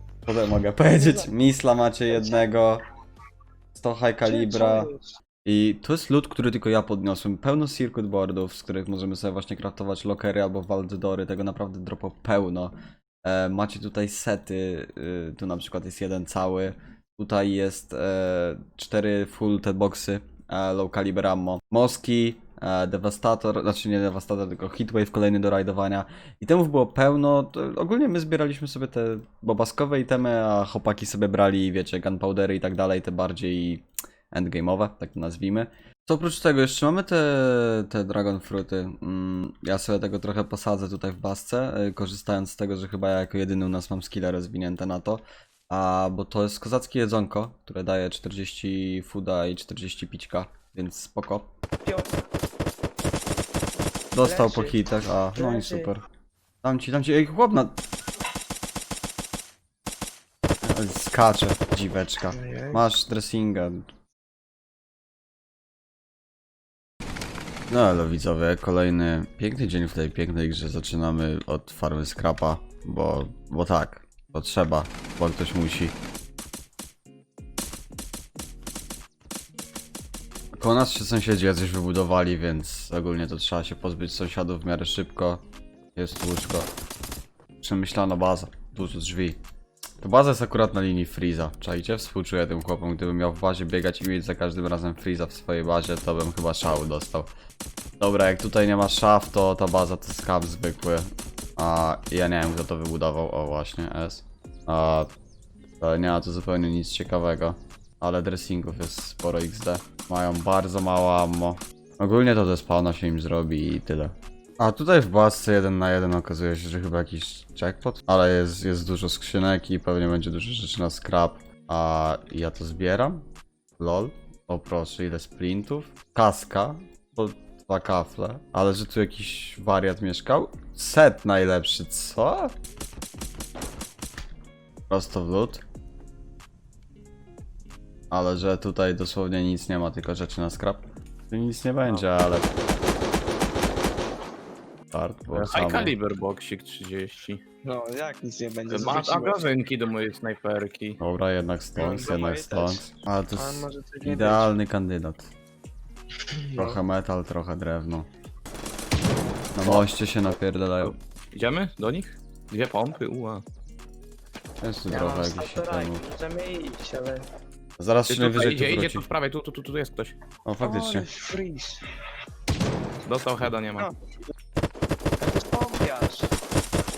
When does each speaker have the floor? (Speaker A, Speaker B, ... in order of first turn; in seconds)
Speaker A: 0.2-2.8, 3.7-4.9, 5.4-51.5, 54.1-56.0, 56.6-57.8, 60.6-63.9, 67.7-75.9, 80.6-85.4, 86.0-86.7, 87.6-89.4, 90.0-97.3, 98.0-105.1, 105.8-123.2, 123.8-132.5, 134.9-135.6, 138.1-142.6, 144.9-145.9, 151.0-155.3, 156.6-158.1, 159.6-160.9, 164.6-166.0, 167.8-169.0, 170.4-171.1
Speaker B: 0.9-1.3, 2.1-2.4, 4.2-5.1, 51.8-52.2, 54.2-54.8, 55.4-55.9, 62.3-62.8, 147.7-149.4, 151.8-154.5, 156.3-156.8, 164.9-167.2, 170.6-171.8, 175.2-176.3
Speaker C: 145.3-147.4, 148.7-151.0, 160.8-163.4, 168.1-170.2, 173.1-173.9